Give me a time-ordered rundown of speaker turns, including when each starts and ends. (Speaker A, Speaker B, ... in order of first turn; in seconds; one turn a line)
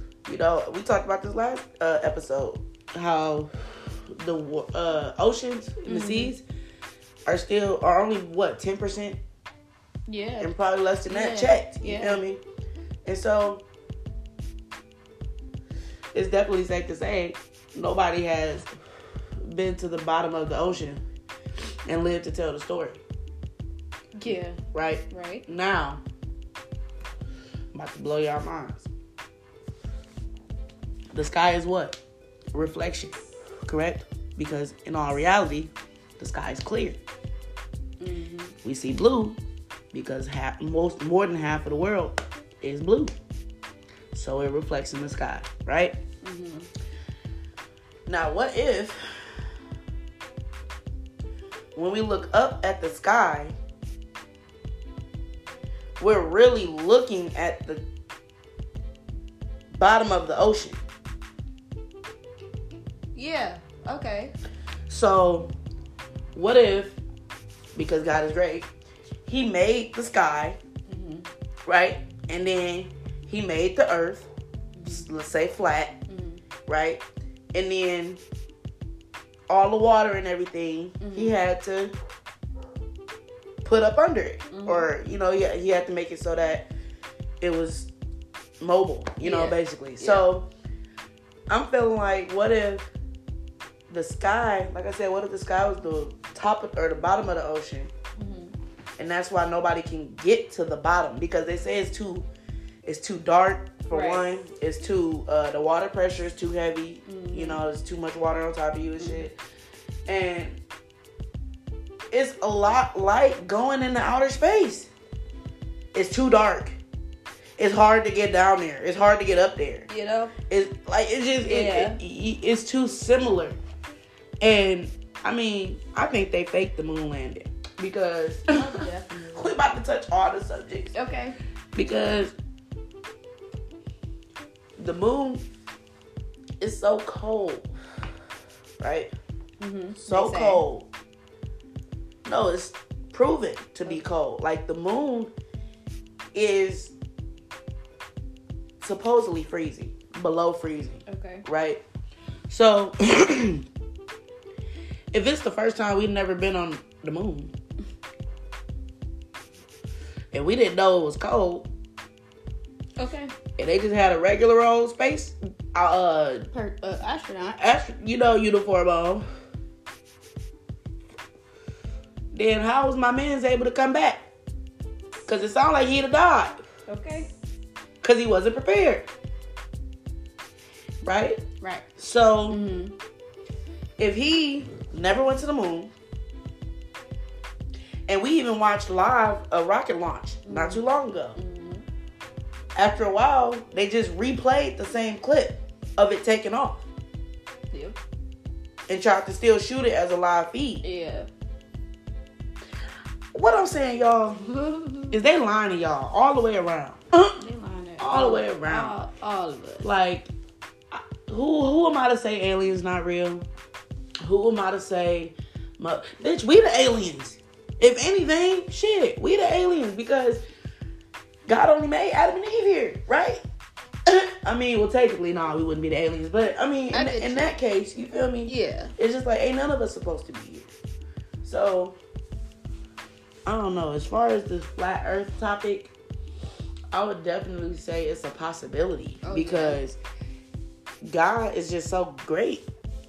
Speaker A: 0.3-6.4
Speaker B: 5.9-6.3
Speaker A: 7.3-9.2
Speaker B: 10.1-10.5
Speaker A: 10.4-12.4
Speaker B: 11.1-12.2
Speaker A: 13.1-13.6
Speaker A: 16.1-18.7
Speaker A: 19.4-21.0
Speaker A: 21.9-23.0
Speaker B: 24.2-25.4
Speaker A: 24.7-26.0
Speaker A: 27.7-28.9
Speaker A: 31.1-32.0
Speaker A: 32.5-37.0
Speaker B: 38.0-38.6
Speaker A: 38.6-39.4
Speaker A: 39.9-43.2
Speaker A: 44.1-46.0
Speaker B: 46.2-46.7
Speaker A: 48.1-49.5
Speaker A: 51.8-53.5
Speaker A: 56.0-57.8
Speaker A: 59.7-60.8
Speaker B: 63.1-64.3
Speaker A: 64.9-65.5
Speaker A: 66.3-67.0
Speaker A: 67.8-68.7
Speaker A: 69.3-70.6
Speaker B: 70.9-71.3
Speaker A: 71.7-74.3
Speaker B: 74.8-75.1
Speaker A: 74.9-76.0
Speaker B: 76.1-76.4
Speaker A: 76.7-77.0
Speaker A: 77.5-78.2
Speaker A: 79.5-81.9
Speaker B: 81.0-81.4
Speaker A: 83.6-86.7
Speaker B: 84.5-84.9
Speaker A: 87.4-87.9
Speaker A: 88.6-90.5
Speaker B: 89.2-90.3
Speaker A: 91.5-92.9
Speaker A: 93.9-97.9
Speaker B: 98.2-98.5
Speaker A: 99.0-102.3
Speaker A: 102.8-109.4
Speaker B: 103.9-104.2
Speaker B: 107.1-107.6
Speaker B: 109.0-109.2
Speaker A: 110.1-110.6
Speaker A: 112.1-114.9
Speaker A: 115.9-116.8
Speaker A: 117.6-119.9
Speaker B: 119.9-120.4
Speaker A: 120.5-123.6
Speaker B: 121.4-122.0
Speaker A: 124.4-130.9
Speaker B: 128.5-129.5
Speaker B: 130.9-131.4
Speaker A: 131.8-132.3
Speaker A: 134.8-135.4
Speaker A: 136.6-137.7
Speaker A: 138.8-139.1
Speaker B: 139.6-140.6
Speaker A: 140.0-140.9
Speaker A: 142.2-145.3
Speaker A: 146.3-146.9
Speaker A: 148.8-151.8
Speaker B: 151.1-151.4
Speaker A: 152.5-153.6
Speaker A: 155.1-157.5
Speaker A: 160.3-161.7
Speaker B: 163.0-163.3
Speaker A: 163.6-166.5
Speaker B: 166.5-167.6
Speaker A: 167.6-169.2
Speaker A: 172.3-174.3
Speaker A: 175.3-176.6
Speaker B: 176.9-177.3
Speaker A: 178.0-179.1
Speaker A: 181.0-181.4
Speaker B: 181.6-181.9
Speaker A: 182.0-182.6
Speaker B: 182.5-182.9
Speaker A: 184.0-185.9
Speaker A: 188.1-191.4
Speaker B: 190.4-190.8
Speaker B: 191.4-191.8
Speaker A: 192.8-196.8
Speaker B: 197.7-198.0
Speaker A: 198.9-200.8
Speaker B: 200.8-201.3
Speaker A: 203.3-204.5
Speaker B: 204.4-205.2
Speaker A: 205.1-207.4
Speaker B: 207.4-209.9
Speaker A: 208.0-208.9
Speaker A: 209.8-210.3
Speaker A: 210.9-213.5
Speaker A: 214.2-220.4
Speaker A: 221.5-223.4
Speaker A: 224.1-230.7
Speaker B: 226.9-227.6
Speaker B: 228.5-228.9
Speaker A: 231.4-232.0
Speaker A: 233.5-235.9
Speaker A: 236.9-240.0
Speaker B: 239.2-239.8
Speaker A: 241.0-242.7